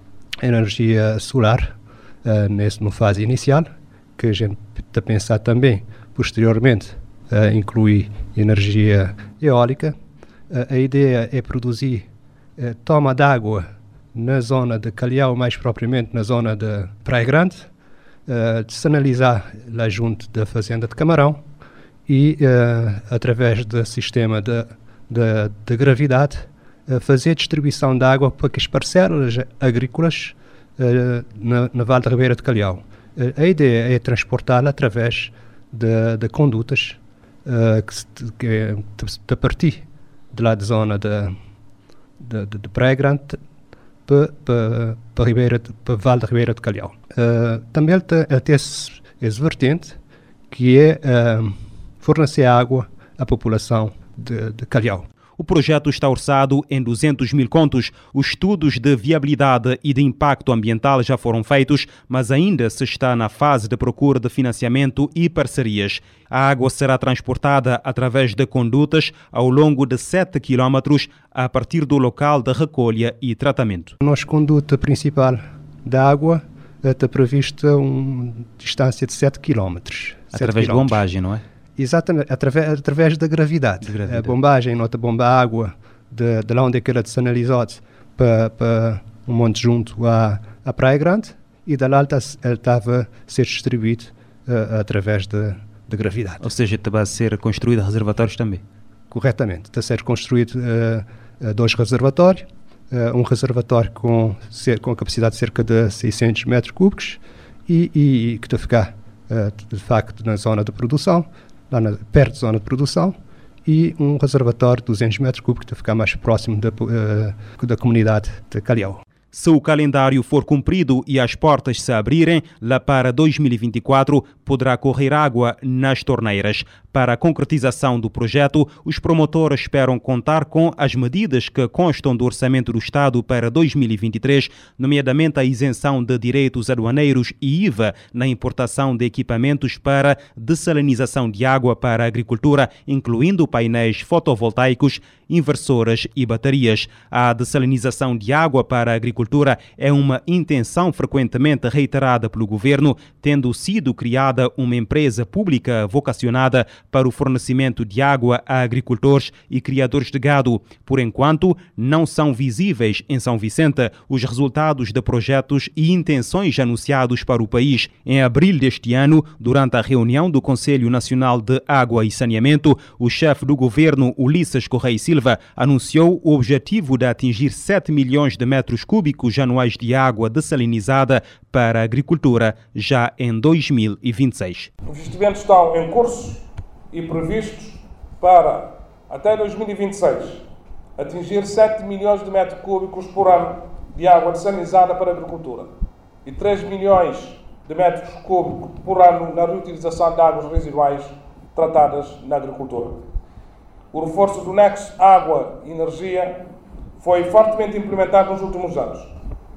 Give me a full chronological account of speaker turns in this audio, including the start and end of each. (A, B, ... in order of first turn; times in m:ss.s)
0:00.4-0:10.0 A
0:10.5-0:17.7 A
0:18.3-0:21.4 A
0:22.1-0:41.4 A
0:42.2-0:43.4 A
0:44.0-0:50.0 A
0:50.5-0:55.0 A
0:55.4-1:13.9 B
1:14.0-1:21.0 A
1:20.3-1:21.4 B
1:21.8-1:36.4 A
1:23.8-1:24.4 B
1:36.4-1:38.6 B
1:39.1-1:59.0 A
1:59.3-3:04.7 B
3:04.9-3:10.4 C
3:11.0-3:15.7 C
3:16.2-3:23.0 C
3:23.9-3:26.4 C
3:27.0-3:29.1 C